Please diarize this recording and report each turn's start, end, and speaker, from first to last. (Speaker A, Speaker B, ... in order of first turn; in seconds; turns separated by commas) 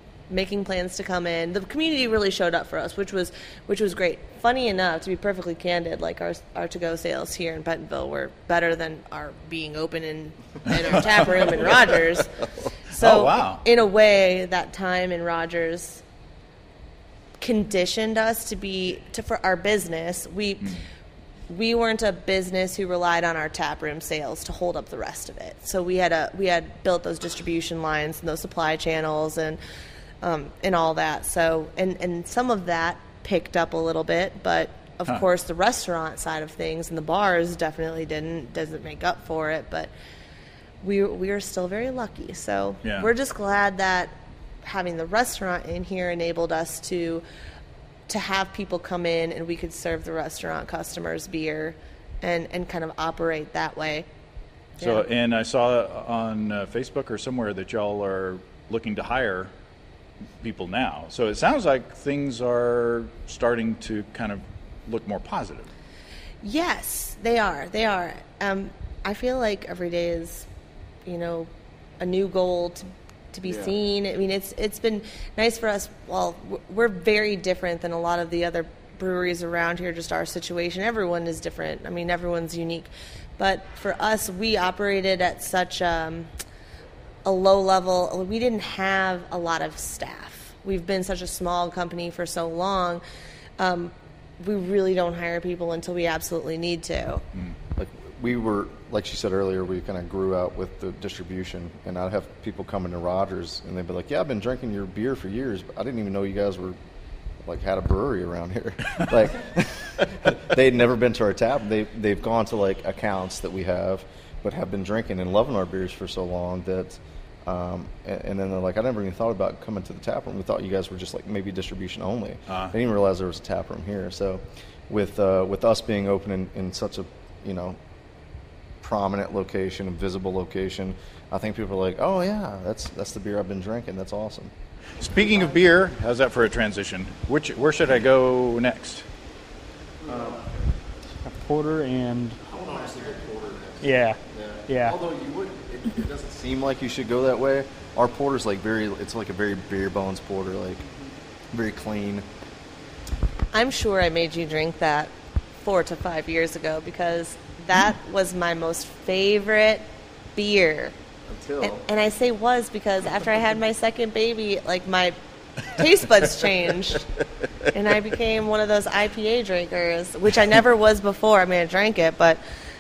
Speaker A: 0.3-16.0, Speaker B: 10.7-11.0, Speaker B: 13.0-13.6, Speaker A: 17.4-20.8, Speaker A: 21.5-29.6, Speaker A: 30.2-39.9, Speaker A: 40.8-47.2, Speaker B: 42.8-43.1, Speaker A: 48.1-54.1, Speaker A: 54.8-55.0, Speaker B: 54.8-59.5, Speaker B: 60.4-65.7, Speaker A: 66.4-70.5, Speaker A: 71.0-86.3, Speaker A: 87.2-93.0, Speaker A: 93.6-97.2, Speaker C: 97.8-106.8, Speaker C: 107.4-127.8, Speaker B: 122.5-122.7, Speaker C: 128.8-134.5, Speaker B: 135.0-139.1, Speaker C: 140.0-140.5, Speaker D: 141.2-142.4, Speaker C: 142.4-150.8, Speaker D: 143.8-145.0, Speaker C: 151.5-152.2, Speaker A: 153.5-160.9, Speaker C: 161.3-161.8, Speaker A: 161.6-165.2, Speaker A: 165.7-167.1, Speaker A: 167.7-172.4